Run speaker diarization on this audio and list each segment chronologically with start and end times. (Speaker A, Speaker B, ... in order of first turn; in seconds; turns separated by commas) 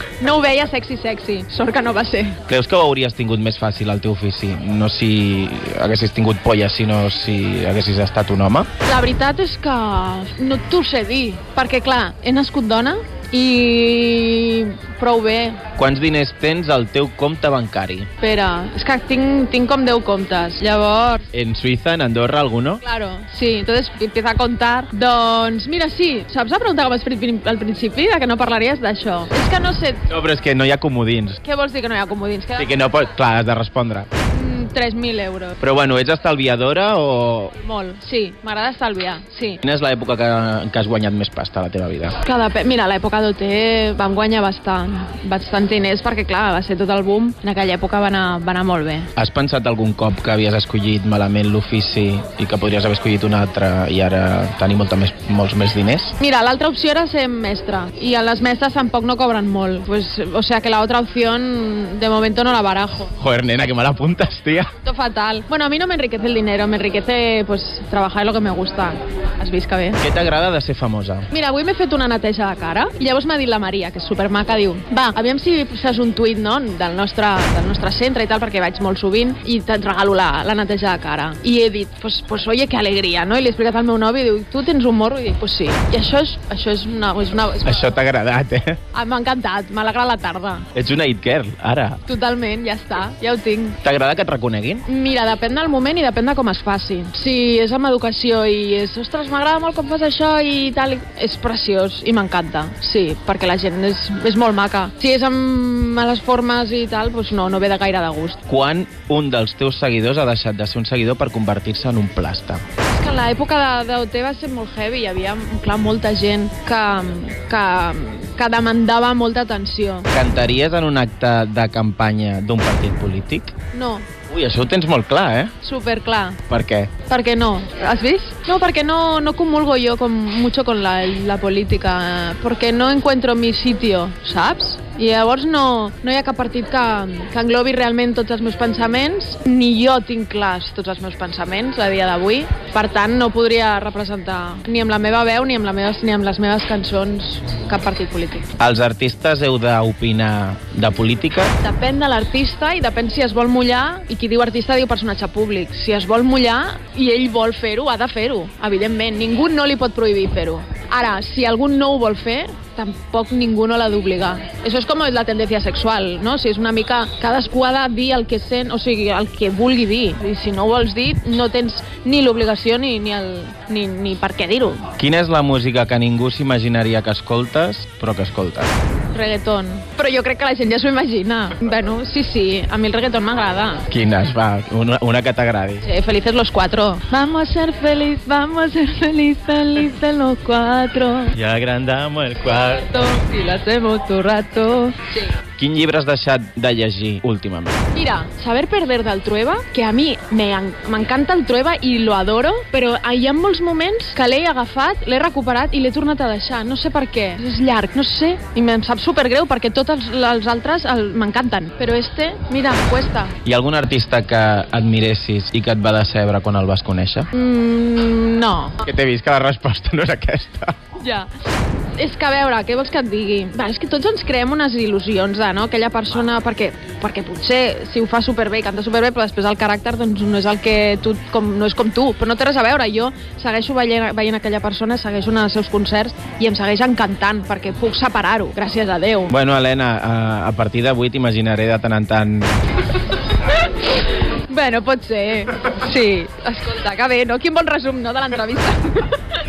Speaker A: 0.2-2.4, Speaker B: 2.5-8.7, Speaker A: 8.8-15.6, Speaker B: 15.8-18.1, Speaker A: 18.2-21.3, Speaker B: 21.3-22.8, Speaker A: 22.8-30.1, Speaker B: 30.1-31.4, Speaker A: 31.4-32.9, Speaker B: 32.6-34.1, Speaker A: 34.2-35.6, Speaker B: 35.6-37.5, Speaker A: 37.6-39.6, Speaker B: 39.6-42.2, Speaker A: 42.2-49.1, Speaker B: 49.2-56.1, Speaker A: 56.2-63.1, Speaker B: 63.2-64.7, Speaker A: 64.8-70.0, Speaker B: 70.0-71.3, Speaker A: 71.3-87.9, Speaker B: 87.6-88.8, Speaker A: 88.9-90.7, Speaker B: 90.8-92.0, Speaker A: 92.1-93.8, Speaker B: 93.8-94.8, Speaker A: 94.9-108.4, Speaker B: 108.5-112.6, Speaker A: 112.9-120.1, Speaker B: 120.1-123.5, Speaker A: 123.7-124.1, Speaker B: 124.3-125.5, Speaker A: 125.6-126.4, Speaker B: 126.5-126.9, Speaker A: 127.1-148.5, Speaker B: 148.6-151.6, Speaker A: 151.6-174.9, Speaker B: 175.0-178.8, Speaker A: 179.1-183.9, Speaker B: 183.9-185.9, Speaker A: 185.8-191.4, Speaker B: 191.3-192.9, Speaker A: 192.7-195.3, Speaker B: 195.6-197.9, Speaker A: 197.9-213.3, Speaker B: 213.4-217.3, Speaker A: 217.3-218.8, Speaker B: 218.8-220.8, Speaker A: 221.0-221.3, Speaker A: 222.0-239.3, Speaker B: 239.3-242.6, Speaker A: 244.3-249.2